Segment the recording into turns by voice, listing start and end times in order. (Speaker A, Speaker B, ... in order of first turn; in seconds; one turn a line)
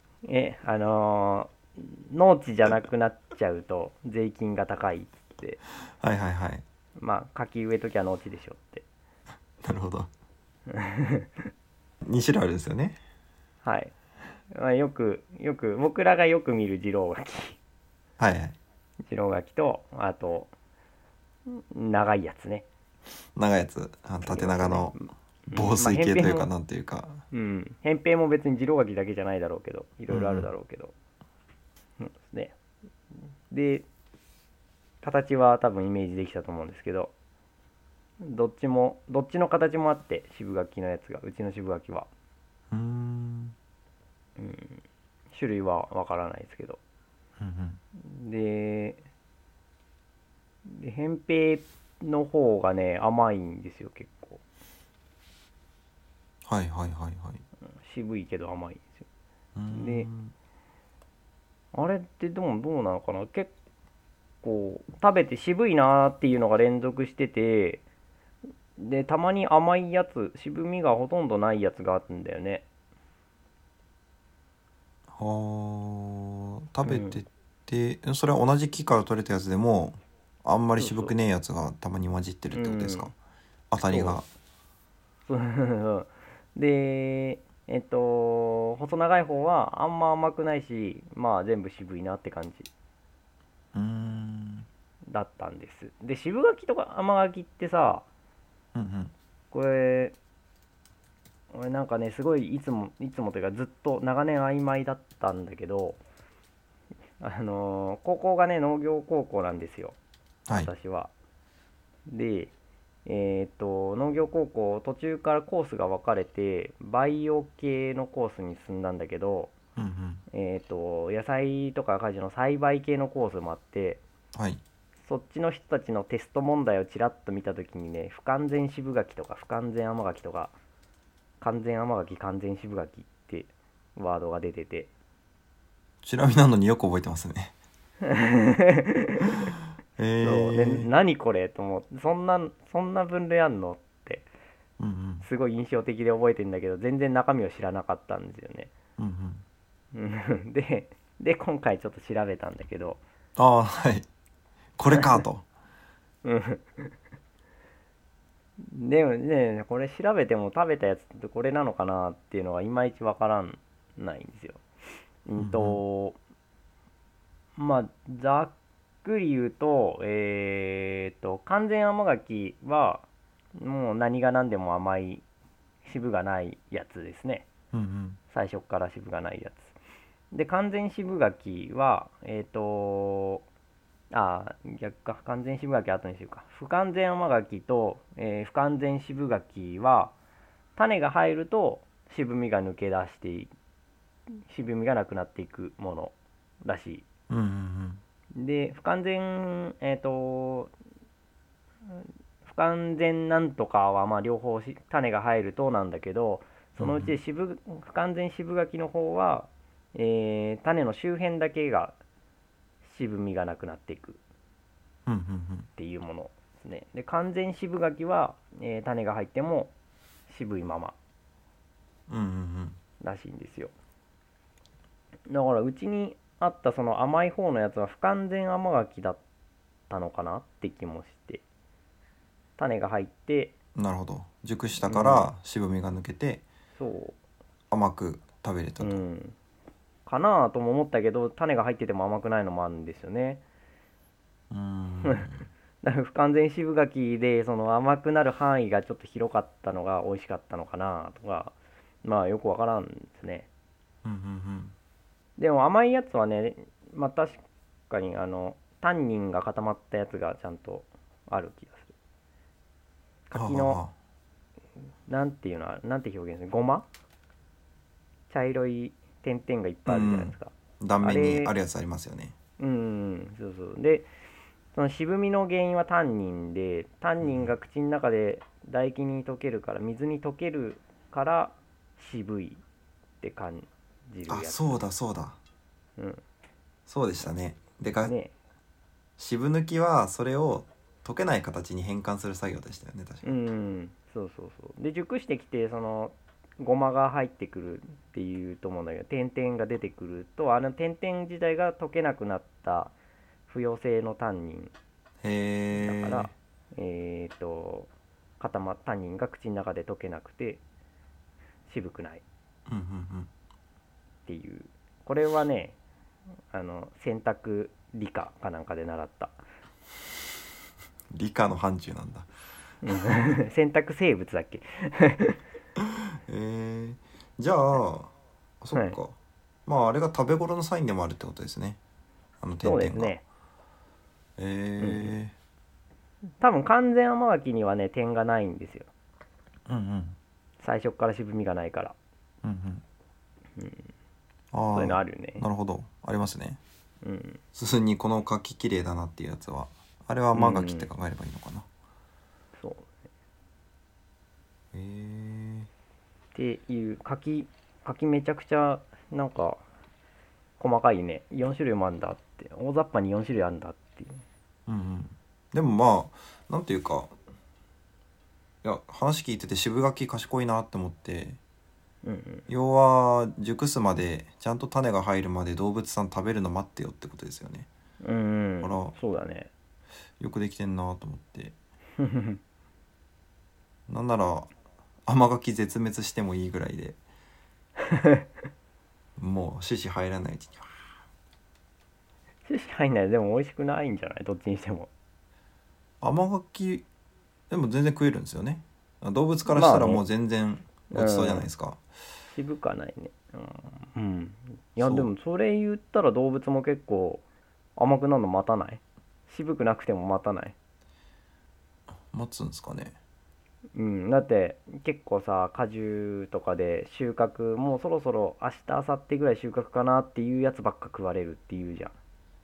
Speaker A: 0.2-5.6
Speaker B: 6.0-6.6
Speaker A: 7.0-8.8
Speaker B: 9.6-10.1
Speaker A: 10.7-11.3
Speaker B: 12.0-13.0
Speaker A: 13.6-13.9
Speaker A: 14.5-17.6
Speaker B: 18.2-18.6
Speaker A: 19.1-20.5
Speaker A: 21.5-22.7
Speaker B: 23.4-25.0
Speaker A: 24.2-26.5
Speaker B: 25.5-27.2
Speaker A: 27.3-30.9
Speaker B: 30.1-30.5
Speaker A: 32.0-32.5
Speaker A: 33.5-33.9
Speaker A: 35.0-37.1
Speaker A: 38.2-42.1
Speaker B: 42.7-43.5
Speaker A: 44.4-46.8
Speaker B: 47.4-47.8
Speaker A: 48.0-49.0
Speaker A: 50.6-54.4
Speaker B: 56.5-57.4
Speaker A: 57.8-59.1
Speaker B: 59.5-60.3
Speaker A: 59.7-60.1
Speaker A: 61.7-63.5
Speaker A: 64.4-67.8
Speaker A: 68.8-72.7
Speaker B: 75.1-83.1
Speaker A: 76.8-77.2
Speaker A: 80.8-81.2
Speaker A: 82.5-83.1
Speaker B: 83.7-84.3
Speaker A: 83.9-84.2
Speaker A: 85.3-92.7
Speaker B: 93.7-94.7
Speaker A: 95.1-98.1
Speaker B: 98.8-99.1
Speaker A: 99.5-100.2
Speaker A: 101.5-106.0
Speaker A: 107.2-110.0
Speaker A: 110.5-111.1
Speaker A: 112.1-112.5
Speaker A: 113.0-119.5
Speaker B: 119.8-120.2
Speaker A: 120.3-124.0
Speaker B: 124.3-124.6
Speaker A: 125.0-130.5
Speaker A: 131.4-134.9
Speaker B: 136.0-137.5
Speaker A: 138.0-139.4
Speaker B: 140.0-140.9
Speaker A: 140.2-144.3
Speaker B: 144.8-145.2
Speaker A: 145.2-148.7
Speaker B: 149.0-149.4
Speaker A: 149.9-153.0
Speaker B: 153.4-154.1
Speaker B: 154.8-155.4
Speaker A: 156.2-156.9
Speaker A: 158.6-164.6
Speaker A: 165.2-166.2
Speaker B: 165.4-165.8
Speaker A: 167.6-168.5
Speaker A: 169.0-175.2
Speaker A: 175.8-177.5
Speaker B: 177.7-178.2
Speaker A: 178.3-179.7
Speaker A: 180.3-183.4
Speaker A: 184.1-190.1
Speaker A: 190.8-193.5
Speaker A: 194.5-197.1
Speaker B: 197.3-198.0
Speaker A: 198.3-200.7
Speaker A: 201.9-212.0
Speaker B: 206.8-207.2
Speaker A: 212.8-214.2
Speaker B: 215.1-215.7
Speaker A: 215.8-219.7
Speaker A: 220.3-221.0
Speaker B: 222.1-222.8
Speaker A: 223.0-223.7
Speaker A: 225.3-229.2
Speaker A: 229.9-231.4
Speaker A: 232.6-233.5
Speaker B: 233.8-236.4
Speaker A: 234.8-235.3
Speaker A: 236.8-237.2
Speaker B: 237.7-239.0
Speaker A: 238.8-239.4
Speaker A: 240.1-243.4
Speaker B: 244.5-245.5
Speaker A: 245.8-253.5
Speaker B: 254.0-254.8
Speaker A: 255.4-261.9
Speaker A: 263.3-263.8
Speaker B: 263.3-263.9
Speaker A: 265.1-266.9
Speaker A: 268.3-271.5
Speaker B: 269.9-272.4
Speaker A: 272.6-274.1
Speaker A: 274.7-282.6
Speaker B: 277.2-277.5
Speaker A: 283.2-284.8
Speaker B: 284.3-285.4
Speaker A: 286.0-286.2
Speaker B: 286.9-288.1
Speaker A: 288.1-288.3
Speaker B: 289.2-293.3
Speaker A: 293.2-302.9
Speaker A: 303.5-304.7
Speaker B: 305.2-306.3
Speaker A: 305.7-310.6
Speaker A: 311.7-312.2
Speaker B: 312.7-313.3
Speaker A: 314.3-315.8
Speaker A: 316.5-319.4
Speaker B: 321.1-322.3
Speaker A: 322.8-325.4
Speaker B: 325.8-331.8
Speaker B: 332.4-333.1
Speaker A: 332.6-333.2
Speaker B: 334.4-335.3
Speaker A: 334.8-335.1
Speaker A: 336.4-338.9
Speaker B: 339.7-340.2
Speaker A: 340.6-342.0
Speaker B: 342.4-342.8
Speaker A: 343.6-343.9
Speaker B: 344.5-346.6
Speaker A: 344.7-345.4
Speaker A: 347.0-347.4
Speaker B: 347.5-351.7
Speaker A: 350.3-350.9
Speaker A: 352.6-352.9
Speaker B: 354.7-355.7
Speaker A: 356.4-359.6
Speaker A: 360.6-364.2
Speaker B: 364.7-367.1
Speaker B: 368.6-371.4
Speaker A: 372.0-372.5
Speaker B: 372.5-377.7
Speaker A: 378.0-379.5
Speaker B: 378.6-378.9
Speaker B: 380.2-381.6
Speaker A: 382.0-382.4
Speaker B: 383.9-384.5
Speaker B: 385.1-387.0
Speaker A: 387.8-388.2
Speaker B: 389.2-390.8
Speaker A: 392.5-394.9
Speaker B: 396.0-396.9
Speaker B: 397.5-401.8
Speaker A: 399.5-400.0
Speaker A: 400.9-401.5
Speaker A: 402.4-407.2
Speaker B: 404.8-405.1
Speaker A: 407.8-410.6
Speaker B: 412.1-413.0
Speaker A: 413.8-421.9